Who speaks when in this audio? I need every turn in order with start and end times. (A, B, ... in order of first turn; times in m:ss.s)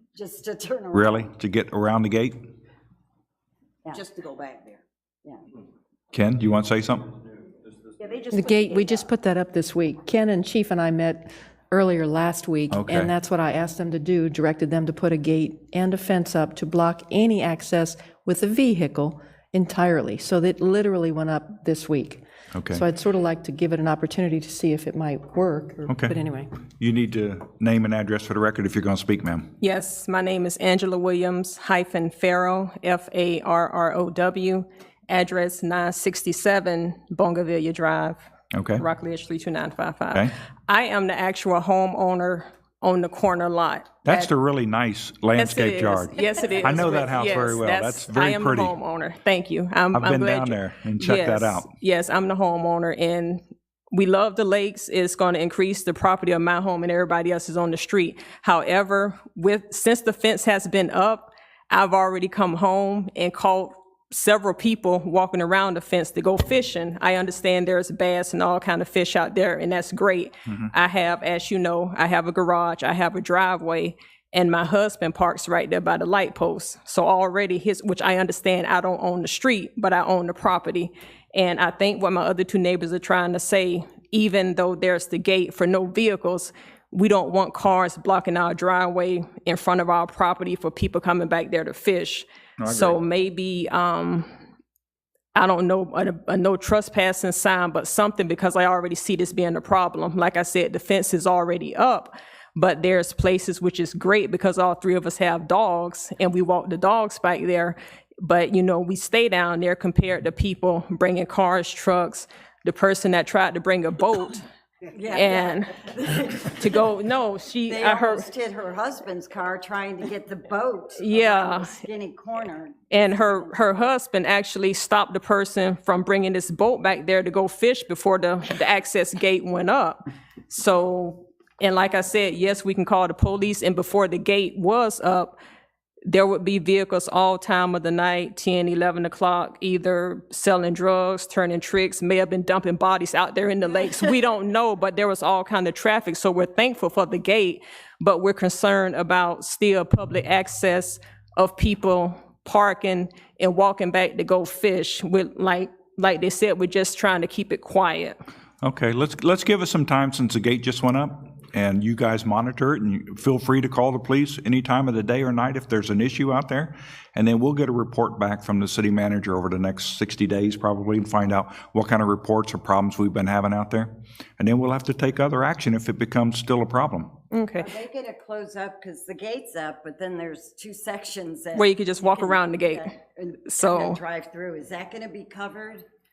0:00.1-0:01.3 A
0:00.9-0:02.4 B
0:03.9-0:04.8 C
0:06.1-0:07.1 B
0:08.0-0:09.1 C
0:08.3-0:26.5 D
0:12.7-0:13.1 B
0:22.5-0:22.8 B
0:25.9-0:26.1 B
0:26.7-0:29.5 B
0:29.6-0:38.2 E
0:38.5-0:38.8 B
0:38.8-0:44.3 E
0:44.0-0:48.7 B
0:45.4-1:34.3 E
0:49.9-0:51.7 B
1:32.6-1:33.0 B
1:35.3-1:54.4 E
1:54.9-1:56.6 A
1:55.1-1:55.8 E
1:56.4-1:58.3 E
1:57.7-2:02.8 A
2:01.0-2:01.8 E
2:02.9-2:15.4 E
2:16.1-2:38.2 E
2:38.6-2:57.1 B
2:57.3-2:57.8 E
2:57.6-3:05.8 A
3:01.5-3:02.9 E
3:03.4-3:04.0 E